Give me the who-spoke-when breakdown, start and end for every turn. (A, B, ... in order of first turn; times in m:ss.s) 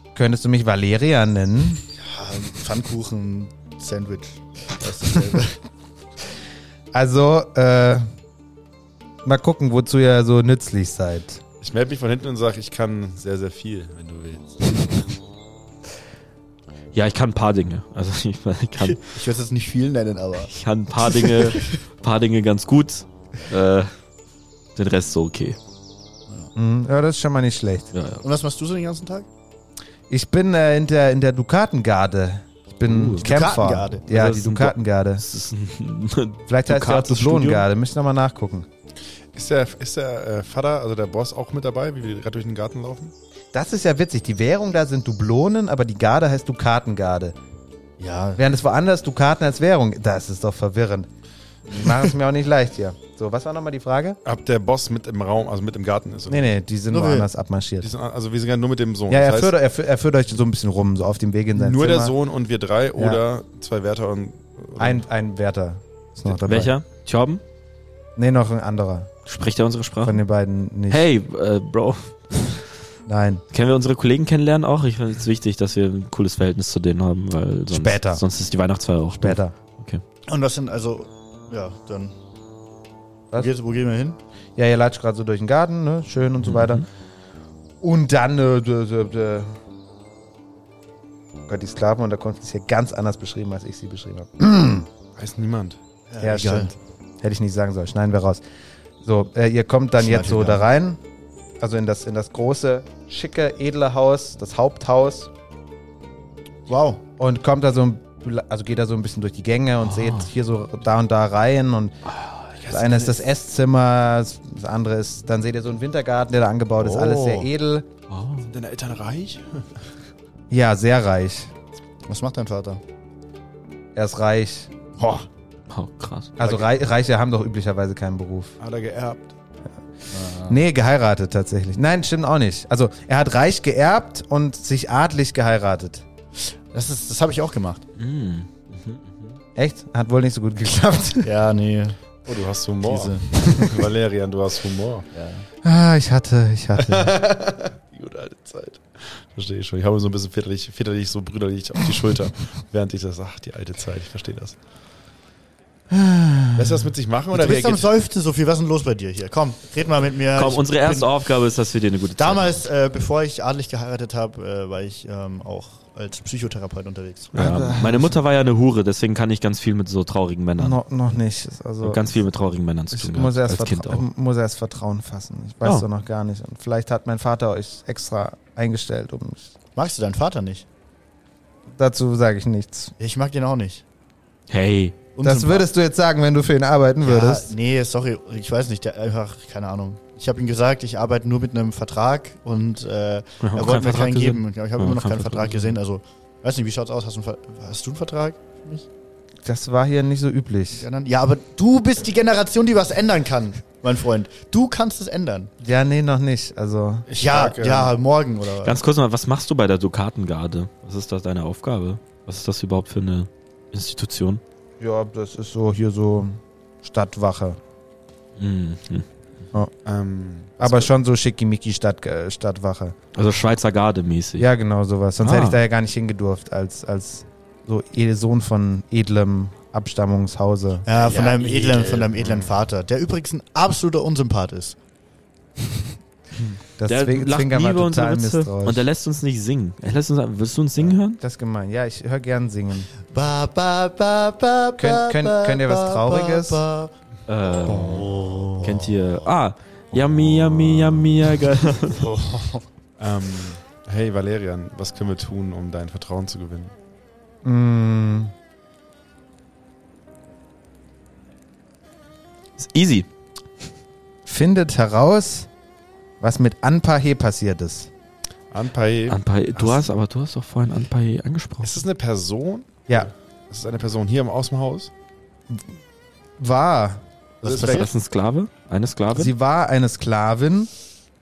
0:00.1-0:01.8 A
0:02.0-0:05.6 B
0:06.9-0:08.0 A
0:09.2-0:11.4 A
0:11.6-0:14.9 C
0:16.9-0:19.0 D
0:18.8-0:21.6 B
0:20.5-0:23.9 D
0:24.8-0:25.6 D
0:26.5-0:27.9 A
0:27.9-0:28.2 D
0:28.2-0:29.3 B
0:30.1-0:35.2 A
0:32.8-0:33.2 D
0:33.2-0:34.1 B
0:34.1-0:37.6 D
0:36.5-0:38.7 A
0:39.3-0:43.1 C
0:43.5-0:47.4 A
0:48.0-0:48.4 B
0:48.4-0:51.1 A
0:51.7-0:54.2 A
0:54.2-0:56.5 C
0:56.3-0:57.9 A
0:56.9-0:57.3 B
0:57.8-0:59.5 C
0:59.1-1:02.1 A
1:01.5-1:05.0 C
1:03.0-1:03.2 A
1:04.8-1:06.7 A
1:06.4-1:07.4 D
1:08.2-1:09.1 A
1:09.2-1:10.2 D
1:10.0-1:11.1 A
1:10.9-1:12.6 D
1:13.1-1:13.4 A
1:13.5-1:20.0 D
1:17.7-1:18.2 A
1:19.2-1:19.5 A
1:20.3-1:22.1 B
1:23.3-1:24.2 B
1:24.6-1:26.8 A
1:26.4-1:26.8 D
1:27.8-1:29.5 A
1:31.5-1:34.9 A
1:35.2-1:35.8 C
1:36.1-1:36.7 B
1:36.2-1:38.4 A
1:39.0-1:41.0 A
1:40.0-1:40.7 B
1:41.6-1:45.3 A
1:46.7-1:47.0 B
1:47.2-1:52.0 A
1:49.8-1:50.3 D
1:52.1-1:52.5 D
1:52.6-1:53.2 C
1:52.7-1:57.9 A
1:56.8-1:57.5 B
1:58.1-1:58.5 D
1:58.5-1:59.7 C
2:00.5-2:01.5 A
2:02.1-2:02.8 B
2:04.0-2:04.7 A
2:05.0-2:05.2 B
2:05.7-2:06.3 D
2:06.4-2:08.6 A
2:06.4-2:06.7 C
2:08.6-2:09.3 C
2:10.1-2:10.6 B
2:10.4-2:16.0 A
2:16.4-2:17.8 B
2:18.0-2:19.3 D
2:19.6-2:21.3 A
2:21.2-2:22.0 B
2:22.3-2:25.1 C
2:22.8-2:23.3 B
2:23.4-2:23.7 A
2:25.1-2:25.5 B
2:25.6-2:27.1 A
2:26.8-2:34.6 C
2:36.6-2:37.9 C
2:37.3-2:41.1 B
2:40.4-2:42.6 D
2:42.2-2:47.3 B
2:47.3-2:50.8 D
2:47.3-2:48.2 A
2:50.6-2:52.0 A
2:51.8-2:54.1 D
2:52.9-2:59.5 A
2:59.8-3:00.6 B
3:01.8-3:02.9 A
3:03.0-3:03.8 B
3:04.5-3:05.0 D
3:05.2-3:05.7 B
3:05.2-3:07.5 A
3:07.0-3:18.9 B
3:13.4-3:15.8 D
3:19.4-3:20.8 A
3:20.7-3:25.5 B
3:25.6-3:27.6 A
3:27.1-3:27.9 C
3:27.2-3:28.8 B
3:28.6-3:34.4 D
3:34.8-3:37.6 A
3:38.4-3:39.0 D
3:39.8-3:40.9 C
3:40.6-3:42.9 A
3:43.1-3:44.5 D
3:44.4-3:51.0 A
3:45.2-3:45.6 D
3:50.8-3:54.8 B
3:51.0-3:52.5 C
3:56.8-3:58.8 A
3:56.9-4:01.2 D
4:01.1-4:02.9 A
4:03.0-4:06.9 B
4:04.8-4:06.6 A
4:07.3-4:12.1 D
4:07.6-4:09.0 B
4:12.0-4:12.6 B
4:13.0-4:16.7 C
4:17.4-4:18.3 A
4:22.6-4:23.1 D
4:24.2-4:25.5 A
4:26.2-4:27.9 A
4:28.5-4:29.8 C
4:29.1-4:31.8 D
4:31.6-4:34.9 C
4:36.4-4:37.0 A
4:37.4-4:37.9 B
4:37.4-4:37.9 C
4:37.5-4:39.3 D
4:39.1-4:40.7 A